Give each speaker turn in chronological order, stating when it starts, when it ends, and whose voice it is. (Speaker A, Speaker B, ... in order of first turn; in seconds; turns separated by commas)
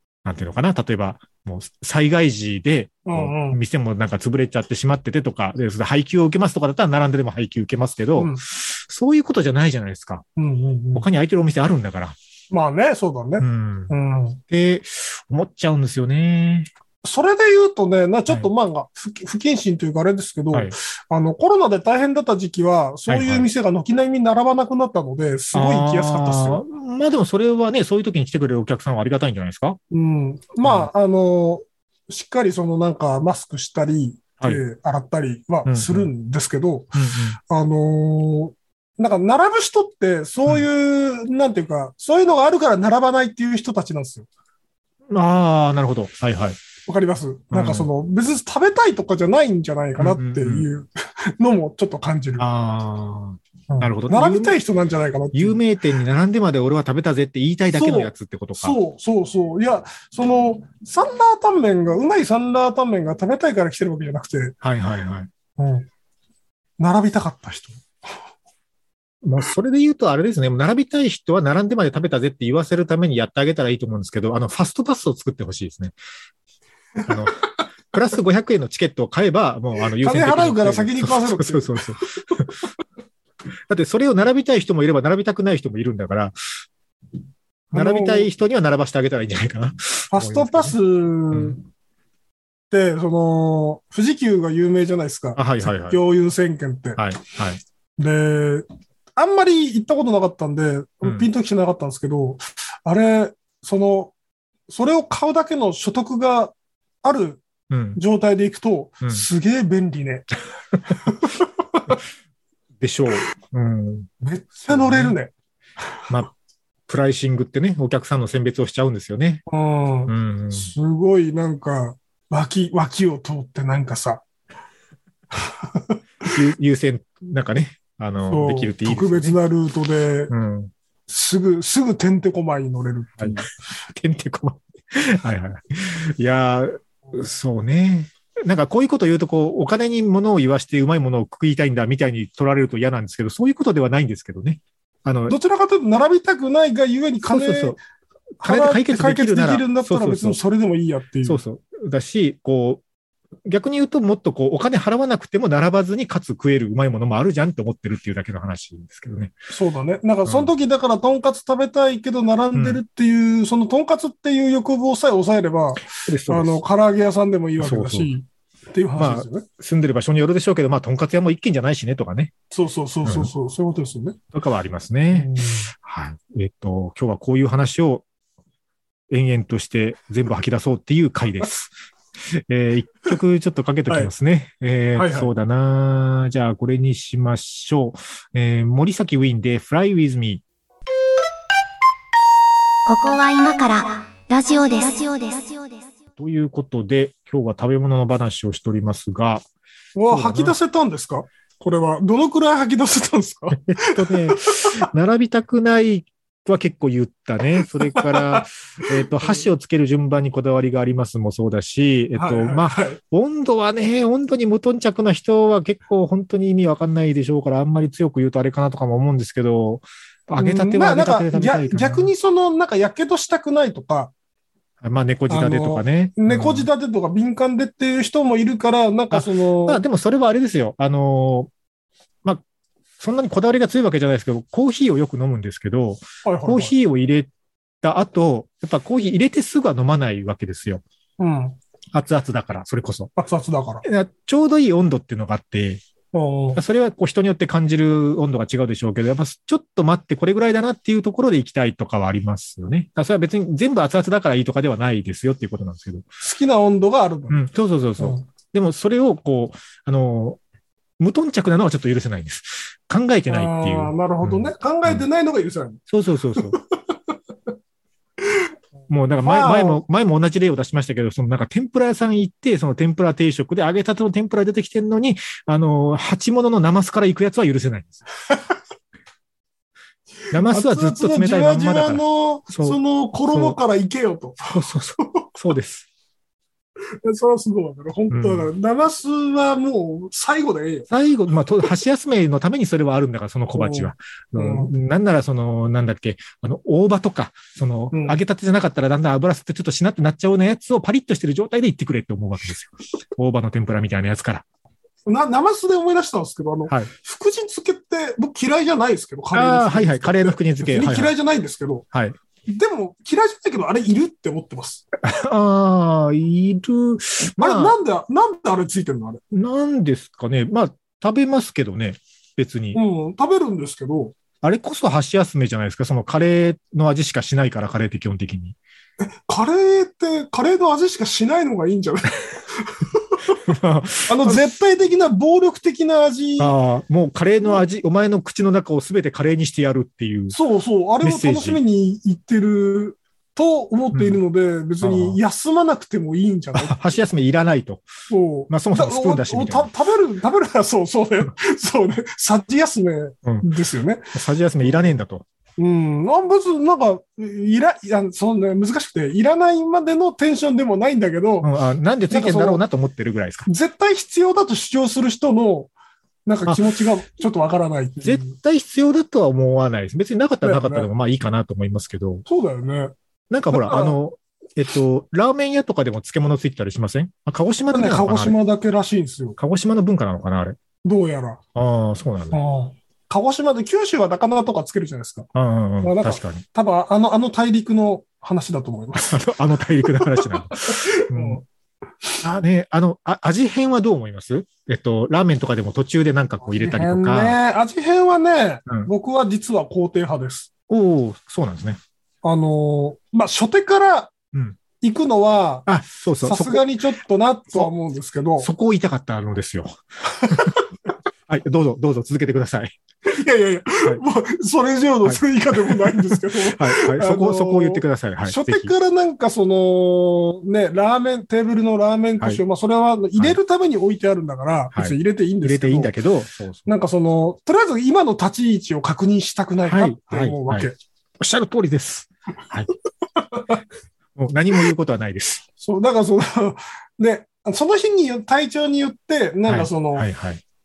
Speaker A: 0.2-10.2, Speaker B: 3.1-3.6, Speaker B: 8.2-8.4, Speaker B: 10.4-11.1, Speaker A: 10.9-12.2, Speaker B: 12.5-14.4, Speaker A: 13.4-13.9, Speaker A: 14.5-16.7, Speaker B: 17.0-26.6, Speaker A: 23.1-23.5, Speaker A: 25.5-29.8, Speaker B: 29.9-37.0, Speaker A: 30.6-30.9, Speaker A: 35.6-36.1, Speaker A: 37.0-37.4, Speaker B: 37.5-44.3, Speaker A: 45.1-46.6, Speaker B: 46.9-52.5, Speaker A: 47.5-47.9, Speaker A: 50.0-50.7, Speaker A: 52.4-54.5, Speaker B: 53.7-55.6, Speaker A: 55.3-58.8, Speaker B: 57.7-64.5, Speaker A: 64.6-65.3, Speaker B: 65.6-65.9, Speaker B: 66.8-67.8, Speaker A: 69.2-76.0, Speaker A: 77.1-82.5, Speaker B: 80.0-82.4, Speaker A: 83.7-86.3, Speaker B: 87.7-88.3, Speaker A: 87.7-90.8, Speaker B: 90.1-91.6, Speaker B: 92.7-97.0, Speaker A: 95.4-96.0, Speaker A: 97.0-97.6, Speaker B: 98.0-104.1, Speaker B: 104.7-107.4, Speaker A: 107.7-108.0, Speaker B: 108.0-110.3, Speaker B: 110.9-112.0, Speaker A: 112.8-114.1, Speaker B: 114.2-115.3, Speaker A: 114.7-115.2, Speaker A: 116.9-119.4, Speaker B: 119.5-124.2, Speaker A: 120.1-120.7, Speaker B: 125.4-126.3, Speaker A: 126.3-129.4, Speaker B: 128.3-130.3, Speaker A: 130.3-130.7, Speaker B: 131.1-133.5, Speaker A: 133.2-145.4, Speaker B: 145.3-147.8, Speaker A: 147.3-147.8, Speaker A: 148.4-150.4, Speaker B: 148.4-151.4, Speaker A: 151.2-152.8, Speaker A: 153.4-159.3, Speaker B: 159.5-169.4, Speaker A: 160.3-160.5, Speaker A: 162.5-162.8, Speaker A: 166.0-166.6, Speaker A: 167.6-168.1, Speaker A: 169.0-172.3, Speaker B: 172.5-174.2, Speaker A: 173.1-173.3, Speaker A: 174.3-178.1, Speaker B: 175.1-175.7, Speaker A: 179.1-190.4, Speaker B: 184.9-185.3, Speaker C: 192.9-195.9, Speaker A: 196.2-199.4, Speaker B: 199.9-204.8, Speaker A: 200.1-200.6, Speaker A: 203.5-222.1, Speaker B: 207.6-208.5, Speaker B: 209.1-209.5, Speaker B: 212.2-213.0, Speaker B: 220.4-224.1, Speaker A: 224.8-226.7, Speaker B: 225.3-229.8, Speaker A: 229.1-231.5, Speaker A: 233.0-237.3, Speaker B: 236.2-236.7, Speaker A: 237.8-240.8, Speaker B: 241.2-241.6, Speaker A: 241.9-243.1, Speaker B: 243.2-243.8, Speaker A: 243.8-245.8, Speaker B: 246.1-246.6, Speaker A: 246.6-256.1, Speaker B: 256.2-257.4, Speaker A: 257.3-260.4, Speaker B: 258.0-258.3, Speaker A: 261.0-265.0, Speaker B: 263.3-265.8, Speaker A: 265.9-266.6, Speaker B: 266.4-267.1, Speaker A: 268.9-278.0, Speaker B: 269.2-269.8, Speaker A: 280.3-283.6, Speaker B: 280.3-285.3, Speaker A: 284.5-285.9, Speaker B: 287.0-290.9, Speaker A: 288.1-288.5, Speaker A: 290.9-304.4, Speaker B: 293.6-294.7, Speaker B: 297.9-298.2, Speaker B: 305.1-311.9, Speaker A: 309.3-311.1, Speaker A: 311.9-312.2, Speaker B: 312.5-314.8, Speaker A: 315.0-317.8, Speaker B: 317.4-319.2, Speaker A: 319.3-322.8, Speaker B: 322.7-324.1, Speaker A: 324.4-328.6, Speaker B: 329.3-333.4, Speaker A: 333.4-334.5, Speaker B: 334.1-336.5, Speaker A: 336.4-340.4, Speaker B: 340.3-346.9, Speaker A: 341.0-341.6, Speaker A: 343.9-344.2, Speaker A: 344.8-345.2, Speaker A: 346.6-347.9, Speaker B: 348.1-354.9, Speaker A: 348.5-349.7, Speaker A: 354.1-355.2, Speaker B: 355.6-361.5, Speaker A: 361.4-363.5, Speaker B: 362.1-362.6, Speaker B: 363.5-365.7, Speaker B: 366.3-368.4, Speaker A: 368.0-372.2, Speaker B: 370.4-370.9, Speaker B: 372.3-372.9, Speaker A: 373.3-378.4, Speaker B: 373.5-374.0, Speaker B: 377.7-379.4, Speaker A: 379.4-380.6, Speaker B: 380.8-381.4, Speaker A: 381.6-382.4, Speaker B: 382.3-385.3, Speaker A: 385.4-386.4, Speaker B: 385.8-389.2, Speaker A: 389.0-391.4, Speaker B: 389.8-391.4, Speaker A: 392.2-397.4, Speaker B: 396.6-400.5, Speaker A: 400.7-401.8, Speaker B: 402.2-404.1, Speaker B: 404.8-405.7, Speaker A: 405.7-406.6, Speaker B: 406.2-408.5, Speaker A: 408.4-410.6, Speaker B: 410.1-410.7, Speaker A: 411.3-412.8, Speaker B: 413.1-425.9, Speaker A: 415.1-418.7, Speaker A: 424.7-426.7, Speaker B: 426.7-430.8, Speaker A: 429.7-430.7, Speaker A: 431.2-432.7, Speaker A: 434.2-435.4, Speaker B: 435.6-440.1, Speaker A: 439.5-440.4